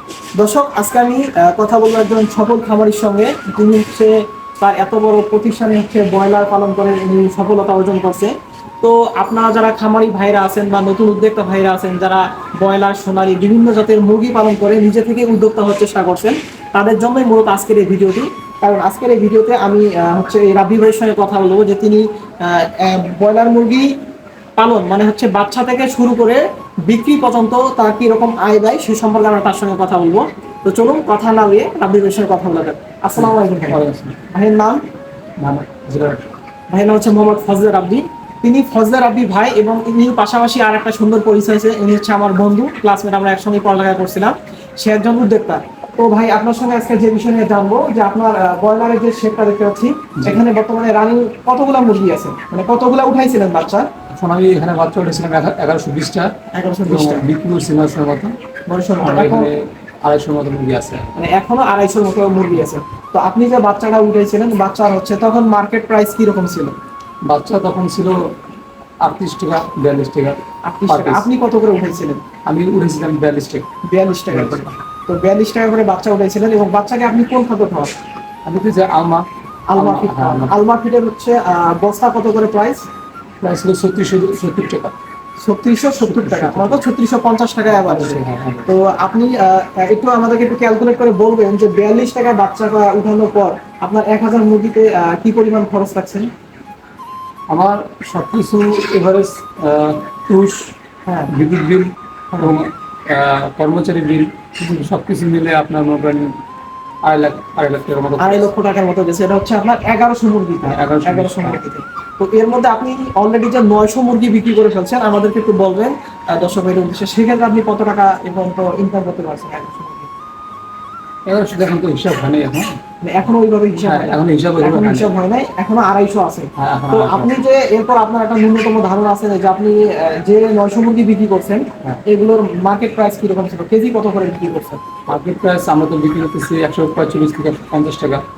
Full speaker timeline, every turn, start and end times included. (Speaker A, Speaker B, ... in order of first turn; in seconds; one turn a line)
Speaker A: 0.4-23.9
Speaker A: 24.6-34.8
Speaker B: 33.1-34.2
Speaker B: 35.4-36.3
Speaker A: 36.7-53.9
Speaker B: 54.1-56.3
Speaker A: 56.5-57.3
Speaker B: 56.9-58.4
Speaker A: 58.7-59.5
Speaker B: 59.0-61.1
Speaker A: 61.1-66.8
Speaker B: 67.2-68.2
Speaker B: 69.0-71.3
Speaker A: 70.6-72.2
Speaker B: 72.5-73.7
Speaker A: 73.9-77.9
Speaker B: 74.3-74.6
Speaker B: 78.4-80.5
Speaker A: 79.7-82.8
Speaker B: 83.4-84.9
Speaker A: 85.4-96.3
Speaker B: 86.0-86.8
Speaker B: 87.7-88.7
Speaker B: 97.5-100.7
Speaker A: 101.0-101.3
Speaker B: 101.3-106.3
Speaker A: 104.6-104.9
Speaker B: 107.0-108.5
Speaker A: 108.2-120.1
Speaker B: 110.6-111.6
Speaker B: 121.2-122.8
Speaker A: 123.0-134.8
Speaker B: 123.8-125.1
Speaker B: 126.6-127.3
Speaker B: 135.1-138.2